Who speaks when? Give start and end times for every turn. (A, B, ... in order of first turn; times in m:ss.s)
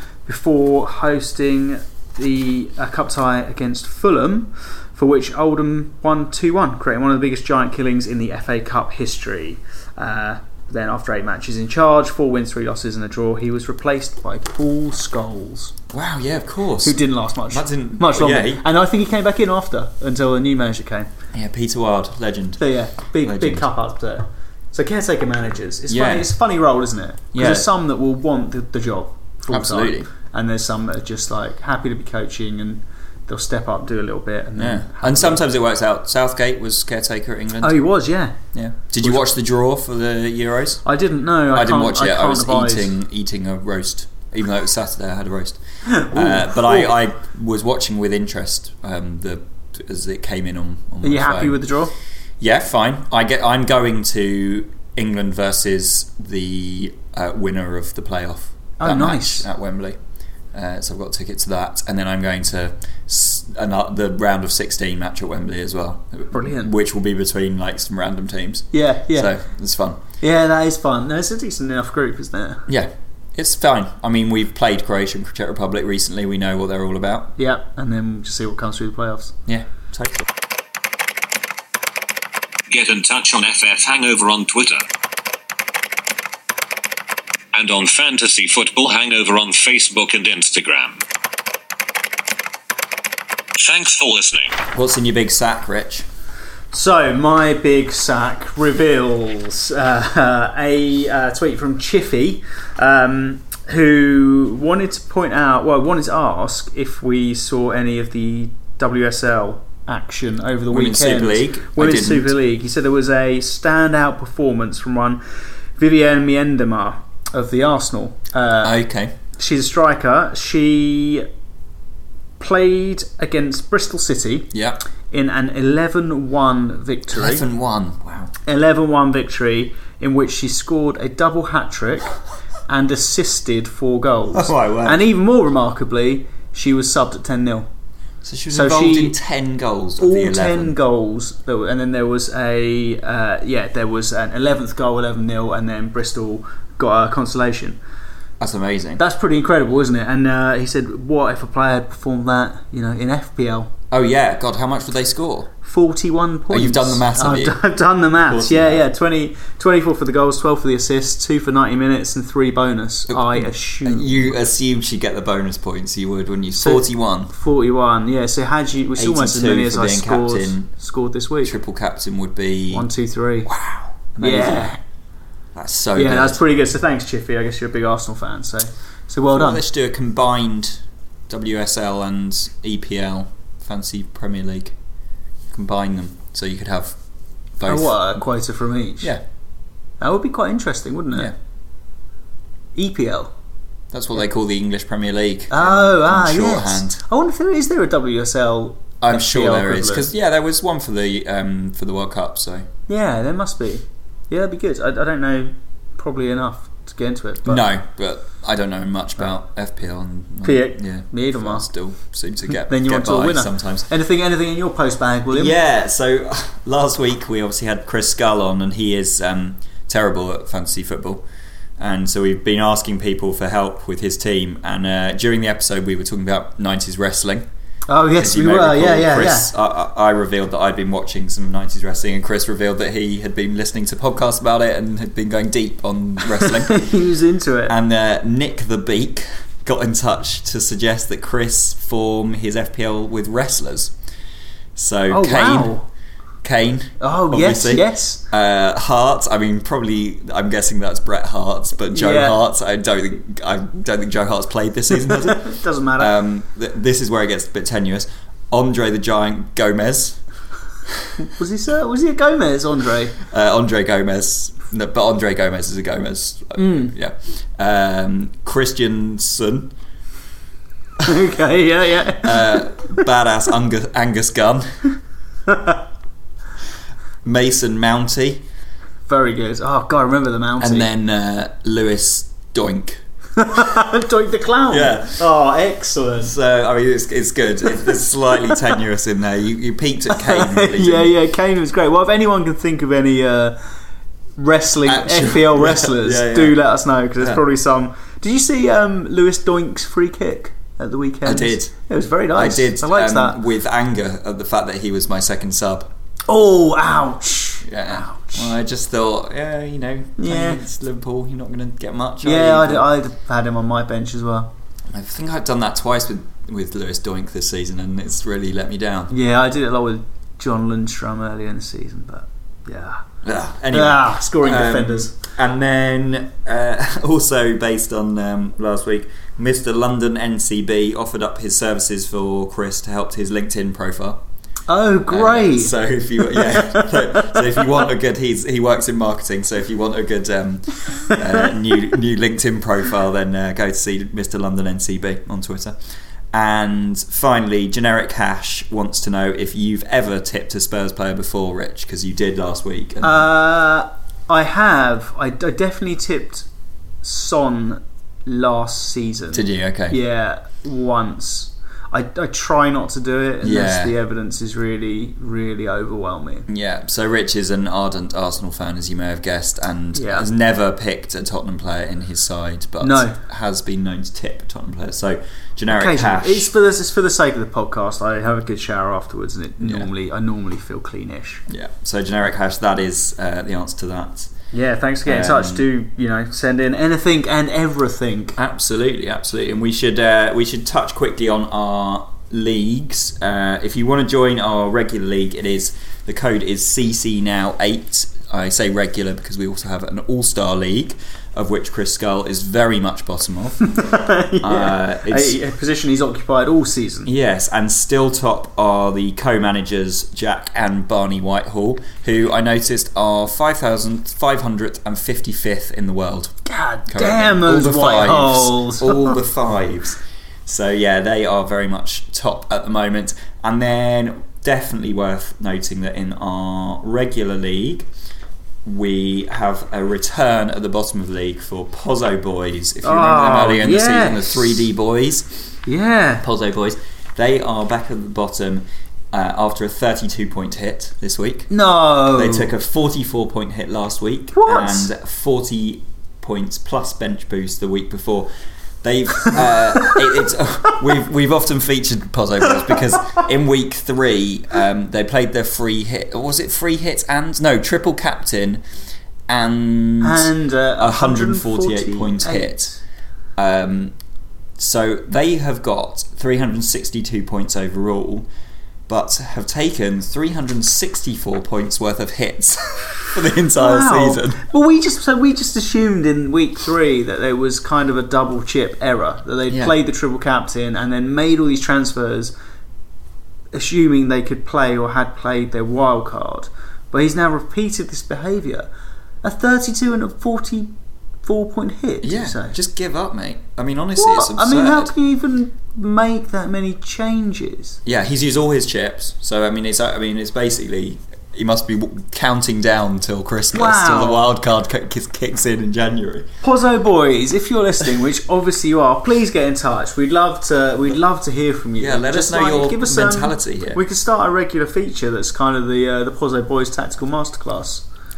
0:00.3-0:15.7 A
0:15.9-0:18.6 B
0:16.8-0:21.1 A
0:21.3-0:22.6 B
0:22.6-0:35.4 A
0:23.2-0:23.7 B
0:25.9-0:26.3 B
0:27.3-0:27.7 B
0:29.5-0:30.1 B
0:34.6-0:37.8 B
0:37.6-0:38.4 A
0:38.5-0:40.8 B
0:40.8-0:42.9 A
0:41.5-0:45.6 B
0:45.8-0:47.0 A
0:46.1-0:51.6 B
0:51.0-0:51.9 A
0:52.4-1:00.0 B
0:58.8-0:59.4 A
1:00.5-1:10.0 B
1:06.3-1:06.7 A
1:08.7-1:09.3 A
1:10.2-1:12.6 A
1:12.7-1:17.3 B
1:17.4-1:19.4 A
1:19.5-1:20.3 B
1:22.7-1:24.8 C
1:27.5-1:31.0 C
1:33.6-1:34.6 C
1:34.7-1:36.1 B
1:36.7-1:55.2 A
1:50.7-1:52.3 B
1:55.8-1:58.8 A
1:58.6-1:59.1 B
1:59.4-2:01.3 A
2:02.4-2:04.5 A
2:04.5-2:04.8 B
2:05.1-2:07.4 A
2:07.1-2:08.3 B
2:08.5-2:12.2 A
2:12.7-2:17.7 A
2:14.3-2:15.0 B
2:18.2-2:20.8 B
2:18.5-2:19.2 A
2:20.0-2:27.8 A
2:28.4-2:29.0 B
2:29.0-2:33.7 A
2:33.9-2:35.5 B
2:35.6-2:44.3 A
2:36.5-2:37.6 B
2:38.2-2:38.8 B
2:43.1-2:47.3 B
2:46.6-2:51.6 A
2:49.0-2:50.7 B
2:51.4-2:52.9 B
2:52.7-2:53.5 A
2:53.4-2:54.7 B
2:54.2-2:54.8 A
2:55.5-2:56.4 B
2:56.0-2:59.6 A
2:59.3-3:04.8 B
3:05.5-3:07.0 B
3:07.6-3:08.2 B
3:07.6-3:09.1 A
3:10.0-3:11.3 A
3:12.8-3:13.3 A
3:13.9-3:17.0 B
3:15.5-3:20.1 A
3:19.0-3:22.7 B
3:22.9-3:27.6 A
3:27.4-3:33.9 B
3:30.4-3:31.7 A
3:32.7-3:35.6 A
3:35.3-3:41.2 B
3:41.8-3:47.5 B
3:47.9-3:49.5 A
3:48.2-3:56.9 B
3:56.4-3:57.7 A
3:57.7-4:03.9 B
4:04.8-4:05.7 B
4:05.1-4:05.9 A
4:06.4-4:20.2 B
4:07.0-4:08.2 A
4:11.9-4:12.4 A
4:15.0-4:16.1 A
4:21.2-4:23.2 A
4:23.3-4:29.7 B
4:26.6-4:26.9 A
4:31.0-4:32.6 A
4:32.2-4:34.7 B
4:35.5-4:35.8 A
4:37.2-4:38.4 B
4:39.1-4:40.9 A
4:40.6-4:43.0 B
4:43.4-4:46.3 A
4:44.7-4:45.2 B
4:46.2-4:51.1 B
4:50.1-4:53.6 A
4:54.4-5:03.4 A
4:54.8-4:56.6 B
5:01.2-5:01.7 B
5:02.4-5:05.9 B
5:06.3-5:08.5 A
5:07.6-5:12.9 B
5:10.2-5:10.6 A
5:12.2-5:14.5 A
5:14.9-5:19.1 B
5:19.1-5:23.0 A
5:23.2-5:34.2 B
5:23.7-5:25.1 A
5:34.7-5:37.7 A
5:35.1-5:45.8 B
5:46.3-5:53.3 B
5:53.0-5:56.5 A
5:57.0-6:06.5 A
5:59.3-6:00.0 B
6:03.4-6:04.0 B
6:06.5-6:16.5 B
6:10.0-6:10.3 A
6:12.8-6:13.2 A
6:15.7-6:21.4 A
6:19.6-6:19.9 B
6:21.5-6:24.3 B
6:24.5-6:28.4 A
6:25.0-6:25.6 B
6:28.4-6:43.7 B
6:43.7-6:47.1 A
6:44.4-6:45.4 B
6:47.0-6:56.3 B
6:56.4-6:59.2 A
6:56.9-7:07.9 B
7:08.6-7:15.5 B
7:12.8-7:14.6 A
7:15.7-7:16.2 A
7:16.2-7:21.5 B
7:21.5-7:22.5 A
7:22.1-7:28.3 B
7:24.3-7:24.9 A
7:28.8-7:38.6 B
7:39.3-7:42.8 B
7:40.0-7:42.8 A
7:43.4-7:44.0 B
7:44.6-7:48.3 B
7:48.9-7:54.4 B
7:53.6-8:02.3 A
7:59.5-7:59.8 B
8:03.5-8:08.7 A
8:09.2-8:10.7 A
8:11.2-8:12.6 A
8:12.0-8:14.9 B
8:14.0-8:17.8 A
8:17.8-8:26.3 B
8:23.5-8:24.3 A
8:26.4-8:37.8 A
8:31.8-8:33.8 B